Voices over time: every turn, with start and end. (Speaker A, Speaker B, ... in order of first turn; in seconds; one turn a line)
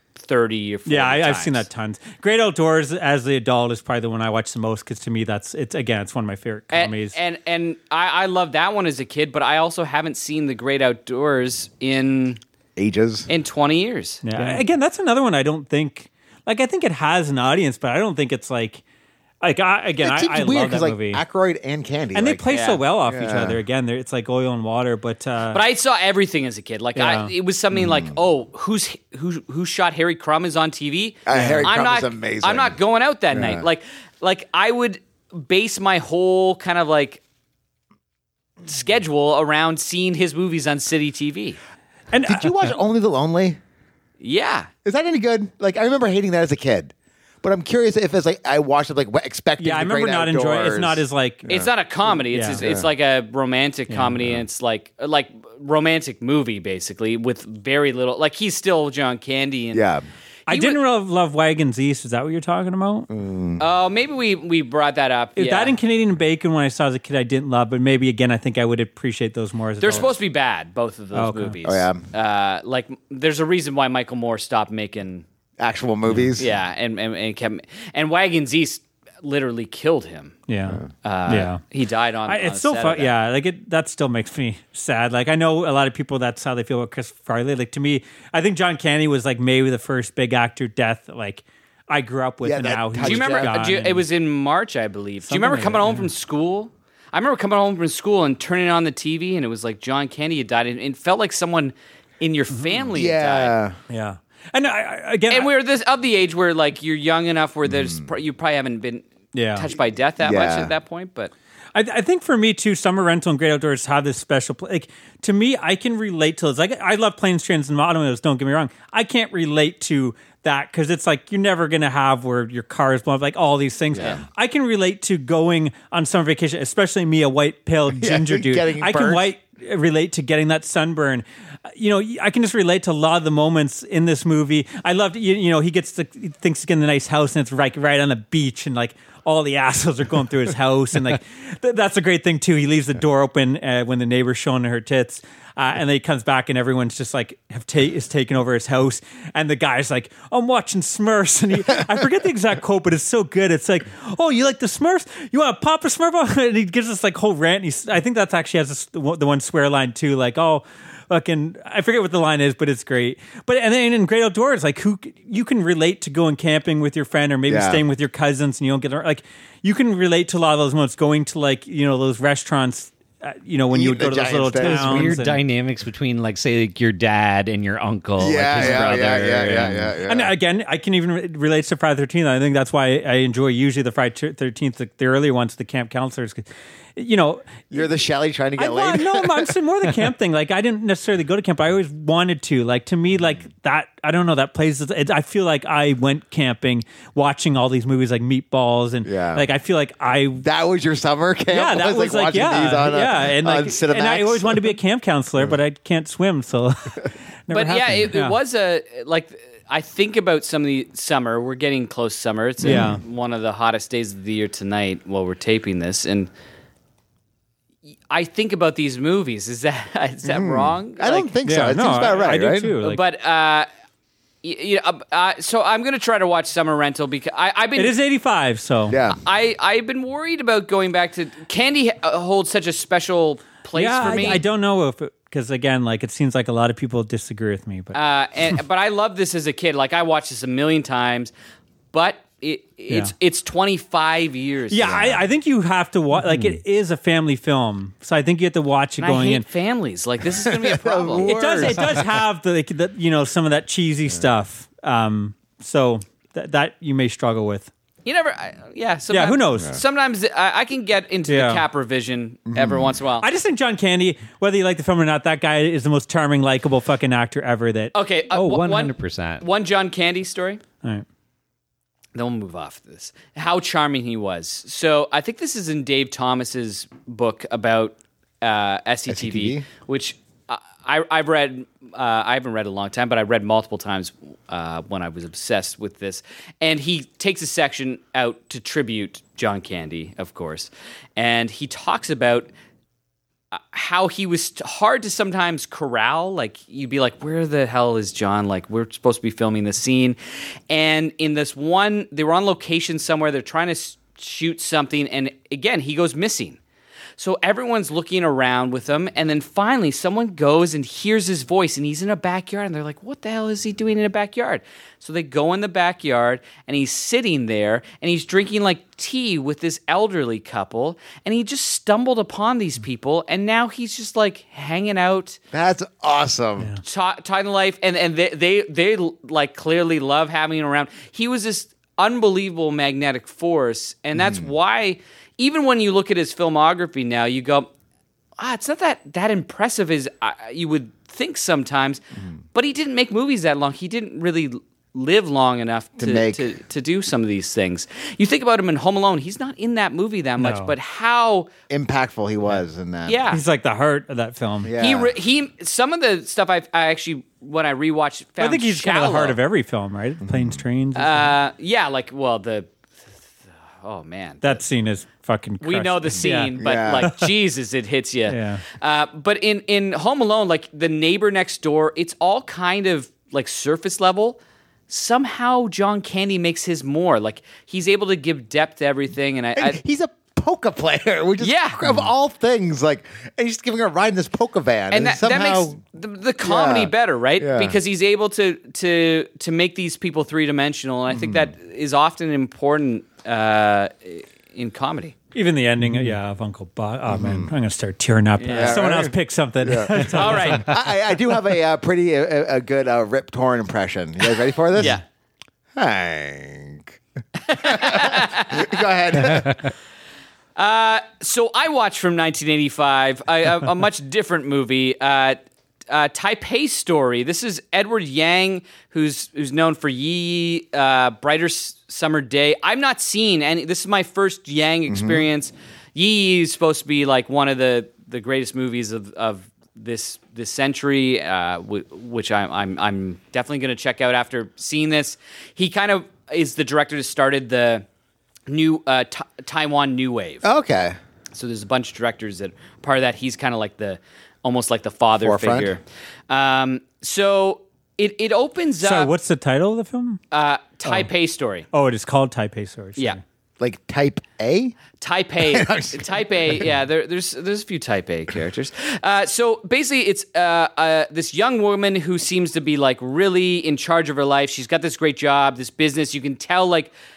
Speaker A: 0.2-1.6
Speaker B: 0.9-7.1
Speaker A: 6.7-12.4
Speaker C: 12.8-13.3
Speaker A: 13.3-14.6
Speaker B: 14.2-18.8
Speaker B: 19.4-21.2
Speaker C: 20.0-22.5
Speaker B: 22.1-25.6
Speaker A: 22.5-22.8
Speaker C: 23.0-23.6
Speaker A: 25.5-37.2
Speaker B: 27.0-27.3
Speaker C: 27.8-28.0
Speaker C: 31.2-32.8
Speaker B: 31.3-31.7
Speaker C: 33.3-33.6
Speaker A: 38.6-41.6
Speaker B: 42.1-42.7
Speaker C: 42.2-43.6
Speaker A: 44.2-44.7
Speaker C: 44.8-51.7
Speaker B: 49.6-51.5
Speaker A: 51.5-59.8
Speaker B: 52.3-52.6
Speaker C: 52.5-52.9
Speaker B: 53.9-54.3
Speaker C: 59.7-60.0
Speaker A: 60.5-60.8
Speaker B: 60.5-63.1
Speaker C: 63.1-63.6
Speaker A: 63.6-65.8
Speaker B: 65.4-70.1
Speaker A: 69.8-75.2
Speaker B: 71.1-71.5
Speaker C: 71.6-72.0
Speaker C: 75.6-76.5
Speaker A: 76.3-80.4
Speaker B: 80.5-81.6
Speaker A: 81.0-83.1
Speaker B: 82.3-94.0
Speaker C: 92.4-93.5
Speaker A: 93.0-103.6
Speaker B: 95.3-96.1
Speaker C: 102.9-103.8
Speaker B: 103.9-105.5
Speaker A: 105.3-111.3
Speaker B: 109.3-109.7
Speaker C: 110.2-110.7
Speaker B: 111.7-175.4
Speaker C: 123.9-124.2
Speaker A: 123.9-124.2
Speaker C: 127.9-129.3
Speaker C: 167.5-167.8
Speaker C: 173.7-175.2
Speaker D: 174.6-179.9
Speaker C: 178.2-180.3
Speaker B: 178.6-179.0
Speaker B: 180.0-187.8
Speaker C: 187.7-189.5
Speaker B: 188.6-200.4
Speaker C: 199.0-199.4
Speaker C: 200.4-204.8
Speaker B: 201.5-208.4
Speaker A: 207.5-216.3
Speaker C: 212.6-213.0
Speaker B: 212.6-213.0
Speaker A: 218.1-221.3
Speaker C: 220.2-222.8
Speaker B: 221.4-223.0
Speaker A: 222.8-223.7
Speaker A: 224.4-227.9
Speaker B: 227.8-229.0
Speaker C: 228.9-229.2
Speaker A: 229.1-234.4
Speaker B: 233.7-238.0
Speaker A: 237.9-241.3
Speaker A: 241.9-245.2
Speaker B: 244.7-249.4
Speaker A: 249.0-252.0
Speaker C: 250.3-252.2
Speaker B: 251.2-257.7
Speaker A: 258.0-263.3
Speaker B: 259.1-259.8
Speaker B: 261.3-261.6
Speaker C: 262.5-262.9
Speaker B: 263.2-267.9
Speaker A: 267.9-270.6
Speaker D: 268.3-269.4
Speaker A: 272.1-292.5
Speaker C: 279.1-279.7
Speaker A: 293.5-300.2
Speaker A: 300.7-306.6
Speaker A: 307.2-325.4
Speaker C: 325.5-326.8
Speaker A: 326.8-337.7
Speaker A: 338.4-342.0
Speaker A: 342.5-351.5
Speaker C: 346.0-346.5
Speaker B: 350.4-350.7
Speaker C: 351.7-353.2
Speaker A: 353.1-353.4
Speaker B: 353.3-354.7
Speaker C: 354.6-355.1
Speaker A: 354.8-359.4
Speaker B: 358.4-361.4
Speaker C: 360.2-360.6
Speaker A: 360.9-362.7
Speaker A: 363.8-364.6
Speaker B: 364.4-367.3
Speaker A: 365.6-379.8
Speaker C: 366.5-367.1
Speaker B: 368.3-368.6
Speaker C: 379.6-385.8
Speaker A: 381.4-381.9
Speaker A: 384.9-395.1
Speaker C: 386.4-387.8
Speaker C: 391.1-391.5
Speaker B: 395.3-400.7
Speaker C: 397.1-397.5
Speaker A: 398.4-398.8
Speaker C: 398.5-405.0
Speaker A: 400.0-400.7
Speaker A: 404.7-405.0
Speaker C: 405.7-407.0
Speaker A: 407.5-408.8
Speaker C: 407.5-409.7
Speaker A: 410.6-437.8
Speaker C: 424.9-425.2
Speaker A: 438.5-440.5
Speaker C: 440.4-441.0
Speaker A: 441.3-449.1
Speaker C: 445.2-445.7
Speaker B: 448.8-450.2
Speaker A: 450.3-451.7
Speaker B: 451.7-453.2
Speaker C: 453.6-454.7
Speaker A: 455.0-466.9
Speaker C: 455.4-456.7